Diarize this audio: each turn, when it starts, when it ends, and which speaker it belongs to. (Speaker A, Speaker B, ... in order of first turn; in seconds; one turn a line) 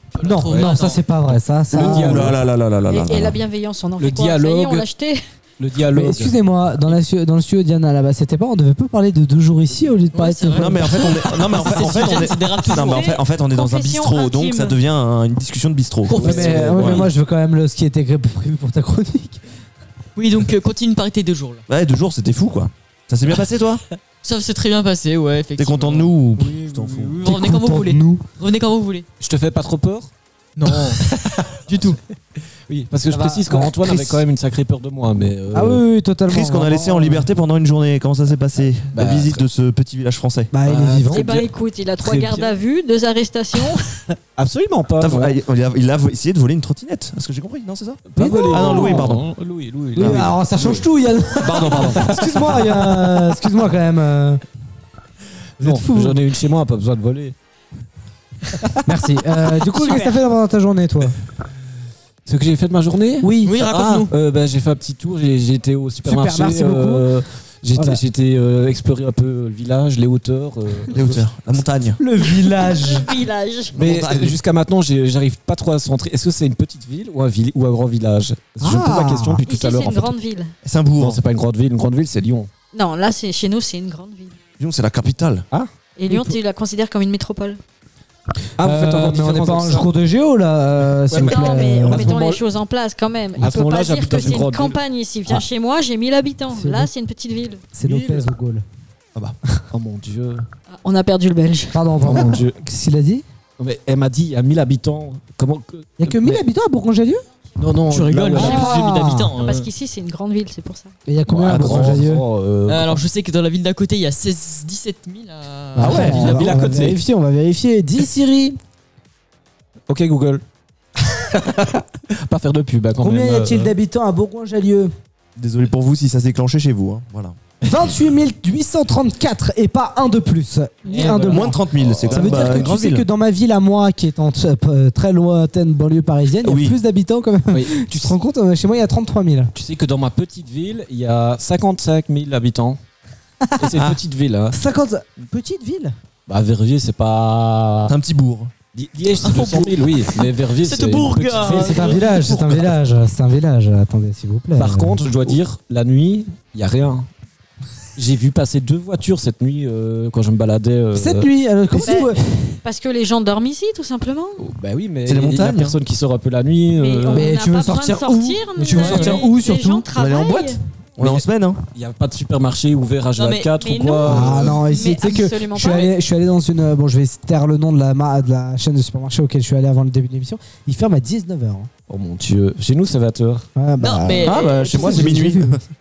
Speaker A: 0.1-1.0
Speaker B: 0.2-2.4
Speaker C: 0.5-0.8
Speaker C: 1.7-2.4
Speaker D: 1.7-3.4
Speaker E: 2.9-5.2
Speaker C: 4.0-4.9
Speaker C: 5.6-6.3
Speaker B: 5.9-11.0
Speaker A: 10.1-13.2
Speaker D: 10.6-17.1
Speaker B: 11.6-12.1
Speaker E: 12.7-14.8
Speaker A: 16.1-17.1
Speaker B: 16.2-19.4
Speaker C: 16.2-17.0
Speaker A: 20.2-21.6
Speaker D: 21.7-23.8
Speaker A: 24.2-26.1
Speaker D: 25.6-27.2
Speaker C: 26.4-27.2
Speaker A: 27.2-29.1
Speaker B: 27.2-28.2
Speaker C: 29.2-30.1
Speaker A: 30.6-31.0
Speaker C: 30.6-31.2
Speaker A: 31.7-32.0
Speaker C: 32.7-35.8
Speaker B: 33.1-33.7
Speaker D: 33.8-34.2
Speaker B: 35.5-37.3
Speaker D: 36.3-40.5
Speaker C: 38.9-39.4
Speaker B: 40.5-41.3
Speaker C: 40.7-41.5
Speaker E: 41.1-43.8
Speaker C: 42.0-42.5
Speaker C: 44.4-45.4
Speaker D: 45.0-49.3
Speaker C: 48.1-50.9
Speaker B: 48.2-49.1
Speaker B: 50.0-54.4
Speaker D: 50.0-50.3
Speaker D: 51.4-52.1
Speaker C: 51.5-52.8
Speaker C: 55.6-57.4
Speaker B: 55.6-56.2
Speaker B: 58.9-61.1
Speaker C: 62.3-71.2
Speaker B: 63.2-63.6
Speaker A: 63.4-64.1
Speaker B: 66.0-67.1
Speaker B: 67.8-68.0
Speaker D: 70.9-72.0
Speaker B: 72.0-73.1
Speaker E: 72.6-73.9
Speaker D: 73.8-74.4
Speaker C: 73.8-80.2
Speaker B: 78.6-79.5
Speaker E: 79.5-80.5
Speaker D: 80.6-81.2
Speaker C: 81.0-82.5
Speaker E: 82.7-84.4
Speaker D: 84.6-85.5
Speaker C: 85.5-86.3
Speaker E: 86.0-87.6
Speaker C: 88.6-89.9
Speaker B: 88.6-92.2
Speaker C: 91.1-92.4
Speaker E: 91.2-97.7
Speaker C: 93.4-95.4
Speaker B: 96.5-96.9
Speaker B: 97.8-98.6
Speaker C: 97.8-98.3
Speaker C: 99.7-100.5
Speaker E: 100.7-101.7
Speaker B: 101.7-103.2
Speaker C: 102.0-102.6
Speaker C: 103.6-106.4
Speaker B: 106.0-107.2
Speaker C: 107.6-108.7
Speaker A: 107.9-109.7
Speaker E: 108.3-108.8
Speaker B: 108.4-109.3
Speaker E: 109.4-110.9
Speaker B: 111.1-112.2
Speaker C: 111.3-113.0
Speaker D: 111.5-112.0
Speaker A: 112.7-116.5
Speaker B: 115.8-118.6
Speaker D: 115.8-116.4
Speaker C: 115.9-117.0
Speaker C: 119.9-120.4
Speaker C: 121.4-123.7
Speaker B: 123.0-124.9
Speaker D: 125.4-127.4
Speaker B: 127.7-139.5
Speaker C: 130.9-132.7
Speaker D: 131.2-133.1
Speaker D: 136.4-136.8
Speaker C: 137.5-138.1
Speaker C: 139.6-142.8
Speaker B: 143.4-143.7
Speaker C: 143.6-144.6
Speaker D: 143.7-144.0
Speaker B: 144.5-145.9
Speaker C: 146.3-147.9
Speaker D: 147.9-148.5
Speaker C: 148.7-152.8
Speaker A: 149.2-152.0
Speaker B: 151.4-155.0
Speaker C: 154.6-157.1
Speaker C: 158.0-161.3
Speaker B: 160.9-162.2
Speaker E: 161.8-162.1
Speaker E: 162.6-164.4
Speaker C: 164.4-167.4
Speaker D: 165.1-165.8
Speaker E: 166.7-170.6
Speaker B: 167.1-169.9
Speaker C: 168.7-169.3
Speaker D: 169.9-171.6
Speaker C: 171.0-174.7
Speaker A: 173.2-173.5
Speaker E: 173.5-175.9
Speaker B: 174.0-181.7
Speaker C: 181.9-183.5
Speaker B: 183.6-185.6
Speaker A: 183.8-185.1
Speaker D: 184.2-185.6